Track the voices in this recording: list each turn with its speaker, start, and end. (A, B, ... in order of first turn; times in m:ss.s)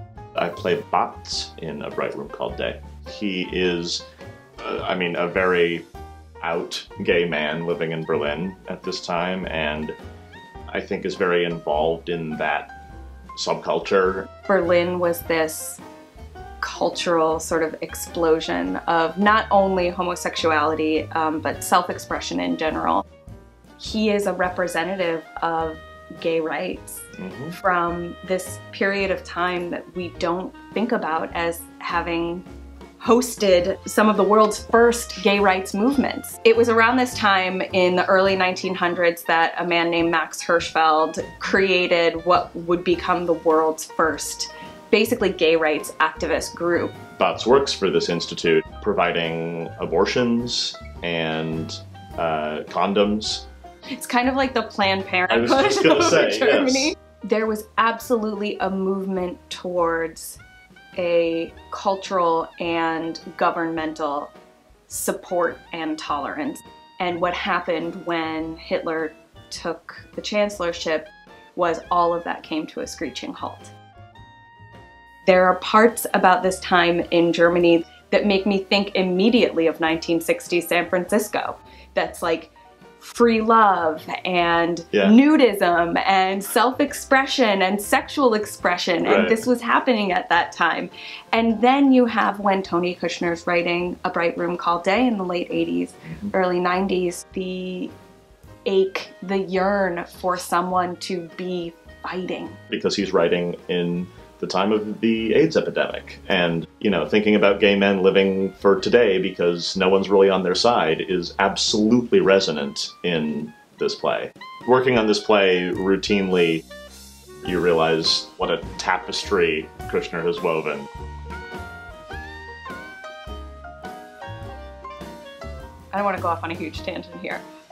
0:00.4-0:04.0 A
0:04.6-0:05.9 A
0:06.4-0:10.0 A
0:10.7-0:12.7 A
0:13.4-0:14.3 A
0:14.5-0:15.8 B
0:16.6-0:23.0 B
0:23.8-0:27.0 B
0:27.2-0:27.6 A
0:27.6-0:32.4 B
0:33.0-0:47.0 B
0:47.2-0:53.4 A
0:54.0-1:00.4 B
0:55.3-0:56.9 A
1:01.0-1:04.3 B
1:04.9-1:13.7 B
1:15.2-1:37.9 B
1:29.0-1:29.4 A
1:38.7-1:42.6 B
1:42.7-1:56.6 A
1:57.4-2:00.9 A
2:05.9-2:07.4 B